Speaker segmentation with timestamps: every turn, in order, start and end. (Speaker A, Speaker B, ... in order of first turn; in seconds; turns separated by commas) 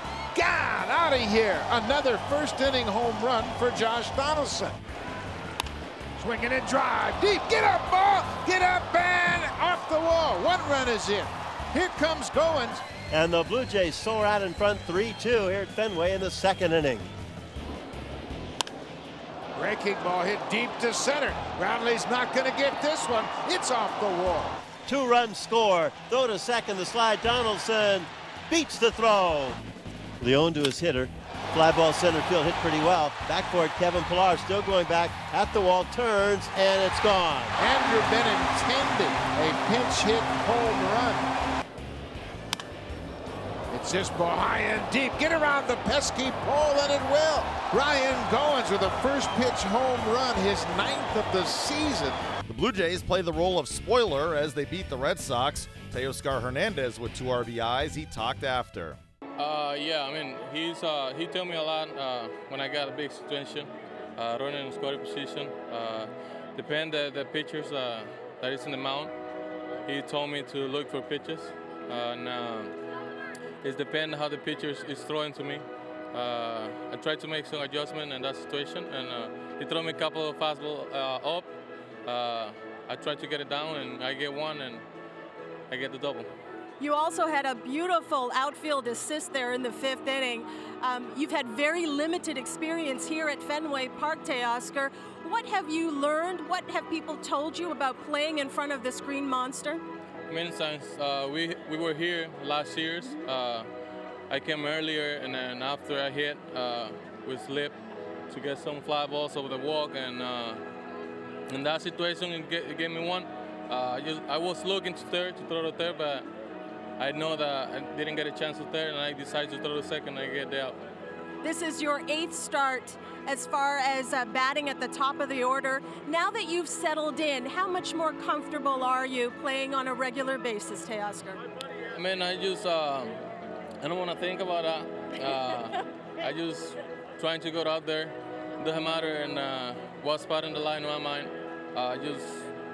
Speaker A: 0.3-4.8, Speaker A: 6.2-12.8, Speaker B: 13.1-17.1, Speaker A: 19.6-24.6, Speaker B: 24.9-29.6, Speaker B: 30.2-37.5, Speaker A: 37.6-41.3, Speaker A: 43.7-52.2, Speaker C: 52.5-59.0, Speaker D: 59.4-69.2, Speaker D: 69.8-72.8, Speaker D: 73.6-81.5, Speaker D: 82.0-84.8, Speaker D: 85.7-86.3, Speaker E: 86.8-99.8, Speaker D: 100.3-103.7, Speaker D: 104.3-107.8, Speaker D: 108.3-110.6, Speaker D: 111.5-116.3, Speaker D: 117.0-120.8, Speaker E: 121.4-131.4, Speaker D: 131.9-133.2, Speaker D: 133.8-142.5